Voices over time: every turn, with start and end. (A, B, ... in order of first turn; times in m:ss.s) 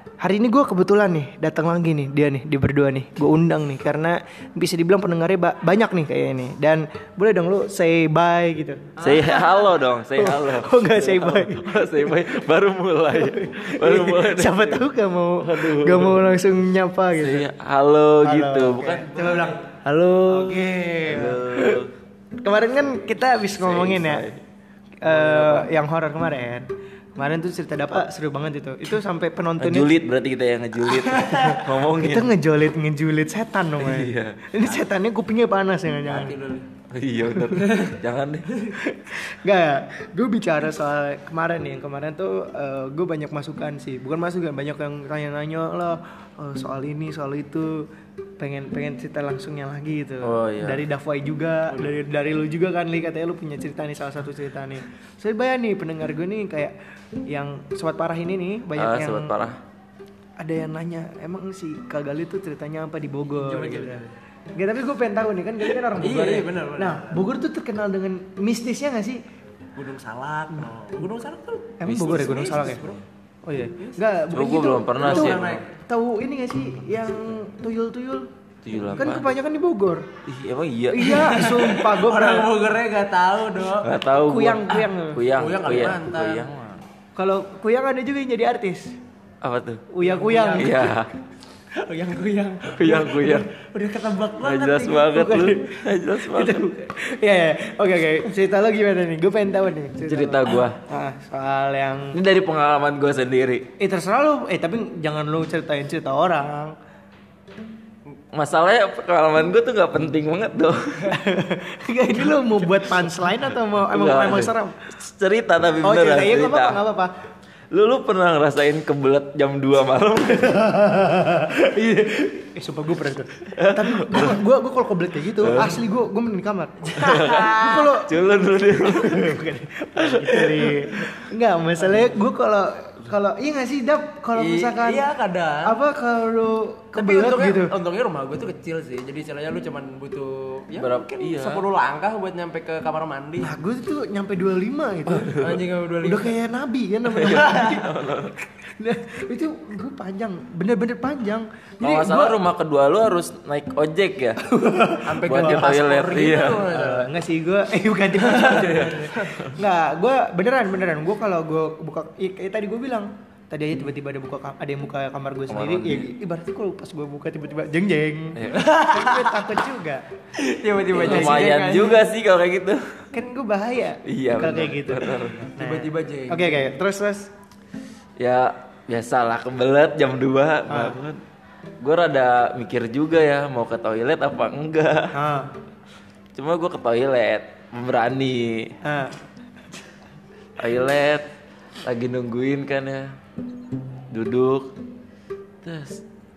0:00.2-0:12.4 A
0:09.0-0:16.4 B
0:13.1-0:17.5 A
0:17.2-0:19.5 B
0:18.2-0:19.7 A
0:19.8-0:20.5 C
0:20.3-0:21.8 A
0:21.0-0:21.9 B
0:22.4-0:24.3 A
0:23.6-0:24.4 B
0:25.0-0:29.9 A
0:25.0-0:25.7 B
0:29.6-0:32.3 B
0:31.1-0:36.3 A
0:33.8-0:34.4 B
0:36.0-0:36.7 C
0:36.9-0:38.5 B
0:37.5-0:38.0 C
0:38.7-0:47.9 A
0:48.4-0:56.7 A
0:50.2-0:50.8 B
0:57.3-0:59.3 A
0:58.8-0:59.6 B
1:00.4-1:09.2 A
1:03.4-1:04.1 C
1:05.9-1:07.3 C
1:09.8-1:13.0 C
1:11.8-1:12.8 A
1:11.8-1:13.0 B
1:13.4-1:18.3 A
1:13.8-1:14.0 C
1:14.3-1:15.6 B
1:15.0-1:15.7 C
1:18.6-1:19.3 B
1:19.0-1:20.1 A
1:20.3-1:21.6 B
1:20.9-1:22.5 A
1:21.0-1:23.9 C
1:23.8-1:26.9 B
1:24.2-1:25.2 A
1:25.3-1:26.5 C
1:27.2-1:29.0 A
1:29.4-1:29.8 B
1:29.9-1:31.0 A
1:30.0-1:30.8 C
1:30.6-1:31.1 B
1:31.8-1:35.2 C
1:32.8-1:33.5 B
1:34.4-1:36.6 B
1:35.1-1:42.2 A
1:40.1-1:40.8 B
1:42.1-1:43.7 B
1:43.8-1:46.7 A
1:48.3-1:51.2 B
1:51.1-1:54.9 A
1:52.6-1:53.3 B
1:53.9-1:56.8 B
1:55.8-1:57.1 A
1:57.7-2:00.6 B
2:00.3-2:08.1 A
2:03.6-2:04.4 B
2:05.4-2:05.8 B
2:07.0-2:09.4 B
2:07.0-2:07.9 C
2:08.8-2:15.1 A
2:10.0-2:11.1 B
2:14.4-2:15.8 C
2:15.6-2:17.7 A
2:17.0-2:23.6 C
2:20.8-2:21.6 B
2:23.4-2:25.5 A
2:25.1-2:25.6 B
2:25.4-2:26.4 C
2:26.0-2:28.1 A
2:27.1-2:28.4 B
2:28.7-2:32.4 A
2:31.8-2:34.4 B
2:34.4-2:35.7 A
2:35.0-2:37.1 C
2:35.2-2:36.7 B
2:36.7-2:50.0 A
2:38.2-2:39.3 C
2:38.4-2:39.6 B
2:45.5-2:46.1 B
2:48.4-2:48.7 B
2:48.5-2:49.5 C
2:50.4-2:52.0 C
2:50.9-2:53.1 B
2:51.0-2:51.6 A
2:53.1-2:57.3 A
2:54.1-2:55.5 B
2:55.6-2:56.7 C
2:58.2-3:01.2 B
3:00.7-3:01.0 A
3:01.8-3:05.1 B
3:05.1-3:05.5 A
3:06.4-3:08.7 B
3:08.8-3:09.2 A
3:10.6-3:11.2 B
3:11.8-3:13.0 B
3:14.1-3:14.7 B
3:15.6-3:16.0 B